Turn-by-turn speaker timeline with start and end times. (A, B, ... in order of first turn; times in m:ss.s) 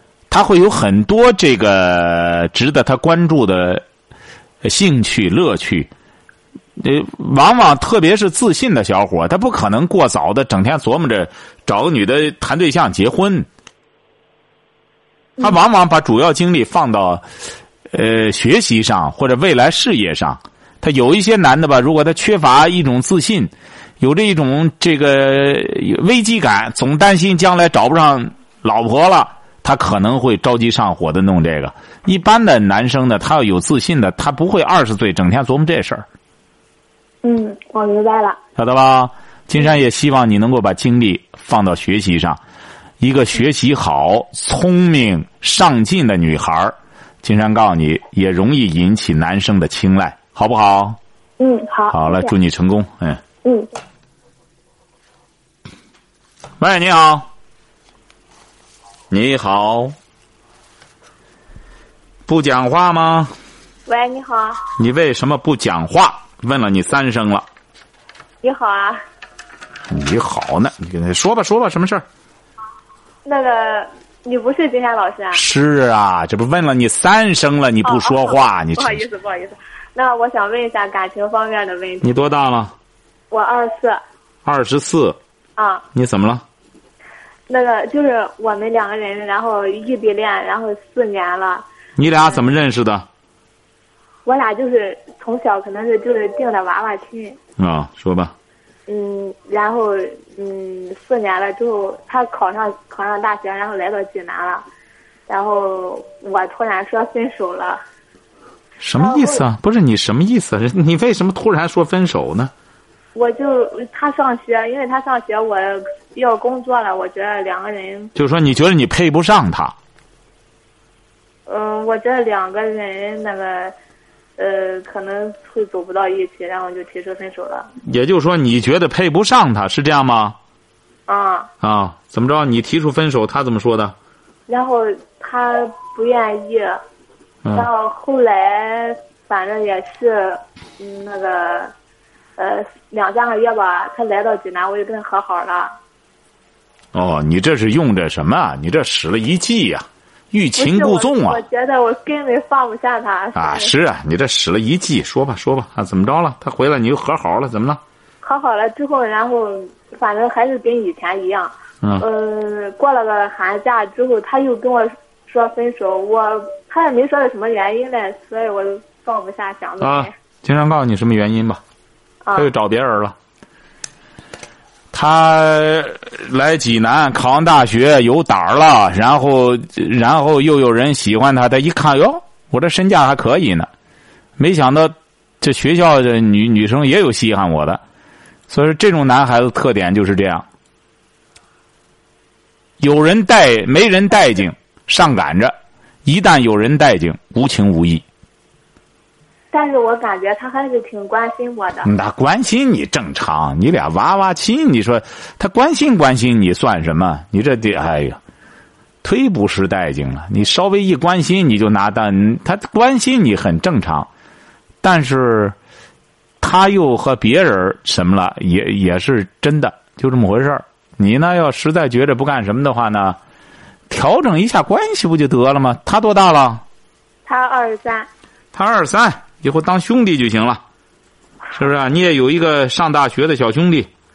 0:00.3-0:03.8 A
0:04.6-0:05.9 A
0:06.8-0:13.5 A
0:15.4-0:17.2 A
0:17.9-0:36.1 A
0:37.2-0:38.4 B
0:38.6-0:42.4 A
0:43.0-0:51.0 A
0:51.4-0:52.3 B
0:51.9-0:53.2 A
0:53.4-0:53.7 B
0:56.6-0:57.3 A
0:59.1-1:00.0 A
1:02.3-1:03.3 A
1:03.9-1:04.6 C
1:04.8-1:07.5 A
1:08.4-1:09.0 C
1:09.9-1:12.0 A
1:13.2-1:15.4 C
1:15.3-1:19.0 A
1:17.8-1:22.2 C
1:22.0-1:22.7 A
1:23.3-1:24.0 C
1:24.4-1:25.2 A
1:25.6-1:25.8 C
1:25.9-1:26.4 A
1:27.5-1:31.7 C
1:32.0-1:33.1 A
1:34.2-1:37.4 C
1:37.6-1:38.3 A
1:38.9-1:44.6 C
1:45.3-1:47.8 C
1:48.8-1:52.5 A
1:49.0-1:49.4 C
1:53.2-1:58.1 C
1:58.2-1:59.8 A
2:01.5-2:03.7 C
2:04.4-2:07.7 C
2:07.8-2:10.4 A
2:11.1-2:11.5 C
2:11.6-2:14.0 A
2:14.5-2:16.8 C
2:17.5-2:21.7 C
2:22.4-2:25.8 C
2:26.9-2:31.4 A
2:30.6-2:33.7 C
2:33.4-2:37.8 A
2:38.2-2:50.1 C
2:49.8-2:51.6 A
2:52.2-2:52.5 C
2:52.4-2:53.2 A
2:54.9-3:03.7 A
3:04.4-3:07.8 A
3:08.5-3:10.4 A
3:12.8-3:18.0 A
3:19.5-3:21.9 C
3:21.8-3:28.2 A
3:29.0-3:34.1 A
3:34.8-3:35.6 A
3:36.4-3:43.2 A
3:43.9-3:46.6 A
3:47.3-3:48.1 C
3:48.5-3:50.6 A
3:51.5-3:53.9 A